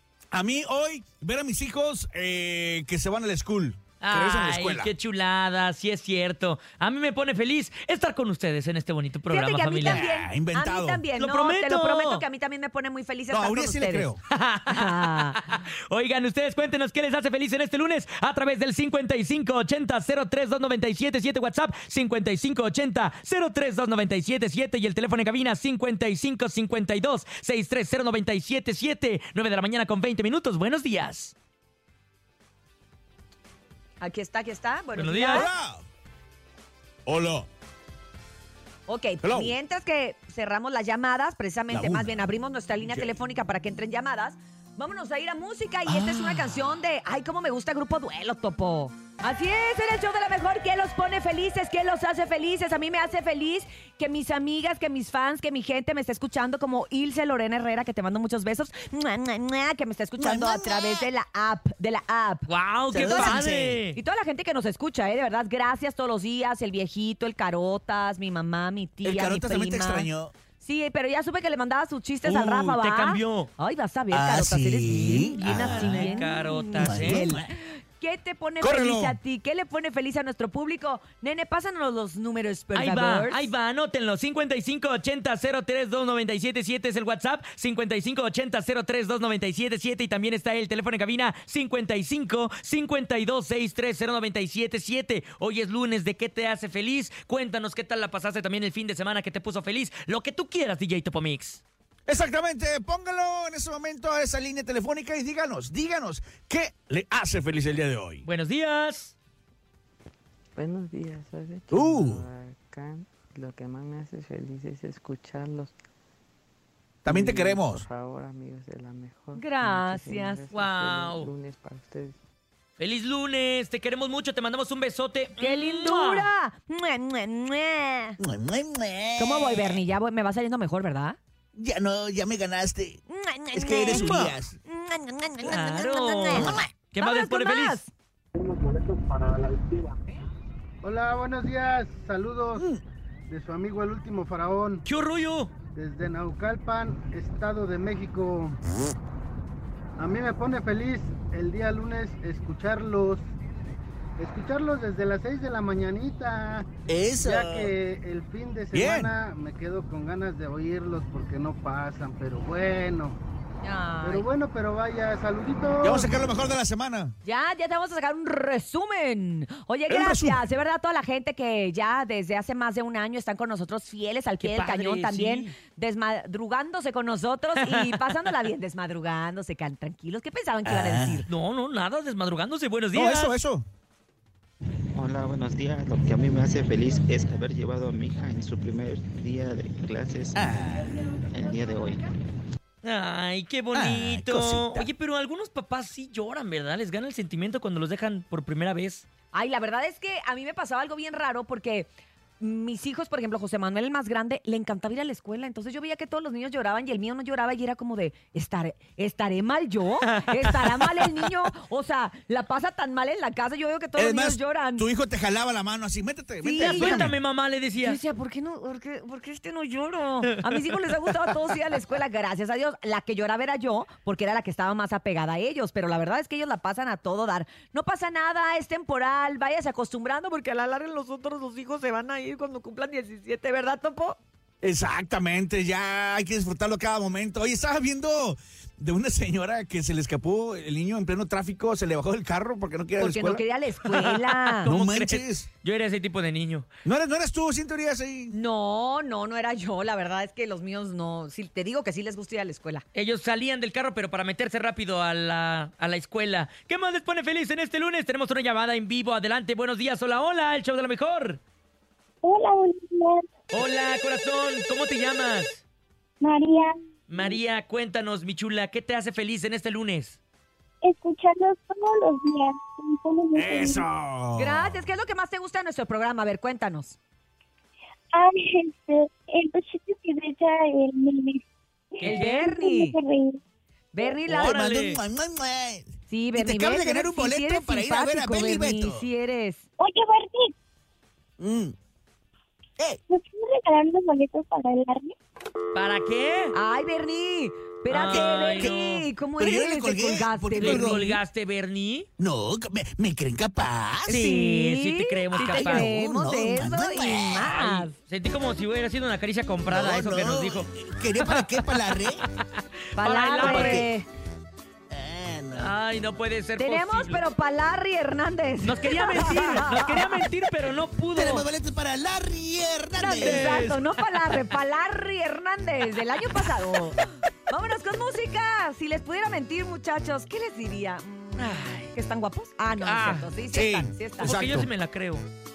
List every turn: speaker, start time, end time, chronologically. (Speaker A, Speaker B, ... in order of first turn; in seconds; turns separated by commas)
Speaker A: 0.3-4.9, Speaker B: 4.0-10.1, Speaker C: 9.3-14.1, Speaker A: 9.8-11.1, Speaker B: 11.2-12.2, Speaker A: 13.3-14.2, Speaker B: 14.3-31.3, Speaker C: 14.7-15.4, Speaker C: 34.0-35.5, Speaker B: 35.0-35.5, Speaker A: 35.3-35.9, Speaker A: 37.1-37.5, Speaker C: 38.9-63.4, Speaker A: 39.2-39.5, Speaker A: 41.7-42.1, Speaker A: 45.9-46.8, Speaker A: 60.2-61.1, Speaker B: 62.5-64.0, Speaker A: 62.9-63.8, Speaker C: 64.0-83.5, Speaker A: 69.0-70.3, Speaker B: 72.2-73.5, Speaker A: 74.1-76.2, Speaker B: 74.9-77.3, Speaker A: 76.8-77.5, Speaker A: 78.6-79.2, Speaker B: 82.7-101.6, Speaker A: 102.1-108.2, Speaker B: 108.2-109.1, Speaker D: 110.6-115.7, Speaker A: 111.7-112.2, Speaker A: 117.0-117.9, Speaker D: 117.1-122.2, Speaker C: 119.3-120.5, Speaker B: 120.5-121.3, Speaker B: 122.8-126.3, Speaker C: 125.4-128.2, Speaker A: 128.2-129.8, Speaker C: 129.2-131.2, Speaker A: 131.5-133.0, Speaker C: 133.1-137.9, Speaker A: 133.5-134.6, Speaker B: 133.9-134.3, Speaker B: 135.4-137.8, Speaker A: 136.3-136.6, Speaker E: 140.8-142.7, Speaker A: 142.6-142.8, Speaker E: 143.3-144.8, Speaker B: 144.8-145.5, Speaker E: 145.8-148.6, Speaker E: 150.0-153.3, Speaker E: 154.2-156.7, Speaker A: 156.9-157.7, Speaker E: 157.2-163.2, Speaker A: 158.7-159.1, Speaker C: 163.6-164.3, Speaker E: 164.0-166.1, Speaker A: 165.8-167.2, Speaker C: 167.2-181.3, Speaker A: 169.9-170.4, Speaker B: 174.4-175.6, Speaker B: 177.6-178.2, Speaker A: 180.7-181.2, Speaker B: 181.3-183.3, Speaker A: 182.9-183.7, Speaker F: 184.9-190.4, Speaker A: 190.3-190.9, Speaker F: 191.2-192.0, Speaker B: 192.8-199.1, Speaker A: 193.7-194.9, Speaker C: 199.3-214.9, Speaker B: 210.0-211.2, Speaker A: 214.0-217.2, Speaker C: 216.4-217.1, Speaker B: 216.6-218.0, Speaker C: 217.8-234.2, Speaker B: 220.2-220.9, Speaker A: 234.6-243.4, Speaker C: 243.0-244.7, Speaker B: 243.8-246.7, Speaker A: 244.7-245.5, Speaker A: 246.8-248.3, Speaker C: 248.3-252.8, Speaker B: 252.9-261.4, Speaker G: 262.2-263.2, Speaker B: 263.5-265.6, Speaker G: 266.2-267.4, Speaker B: 267.1-270.2, Speaker G: 270.8-273.9, Speaker A: 273.4-274.9, Speaker C: 274.4-277.0, Speaker G: 278.1-281.4, Speaker B: 282.0-282.5, Speaker G: 282.0-283.4, Speaker C: 282.0-283.0, Speaker C: 283.9-284.6, Speaker A: 284.3-289.1, Speaker B: 284.3-285.0, Speaker C: 286.1-289.6, Speaker G: 289.8-290.5, Speaker A: 291.4-291.7, Speaker G: 293.1-295.1, Speaker B: 295.7-296.6, Speaker C: 296.5-301.1, Speaker B: 297.9-299.1, Speaker A: 298.1-298.8, Speaker A: 299.4-301.2, Speaker B: 300.6-302.1, Speaker A: 302.2-304.4, Speaker C: 304.1-307.9, Speaker B: 304.1-305.9, Speaker A: 305.4-307.8, Speaker B: 307.6-313.9, Speaker A: 309.7-312.2, Speaker C: 313.0-314.1, Speaker A: 313.4-313.9, Speaker A: 314.9-315.8, Speaker B: 315.5-317.2, Speaker C: 316.6-320.3, Speaker B: 318.6-321.5, Speaker A: 321.1-323.6, Speaker C: 323.0-334.4, Speaker B: 323.2-324.5, Speaker B: 331.4-331.9, Speaker B: 332.8-333.3, Speaker A: 333.5-334.7, Speaker B: 334.2-335.3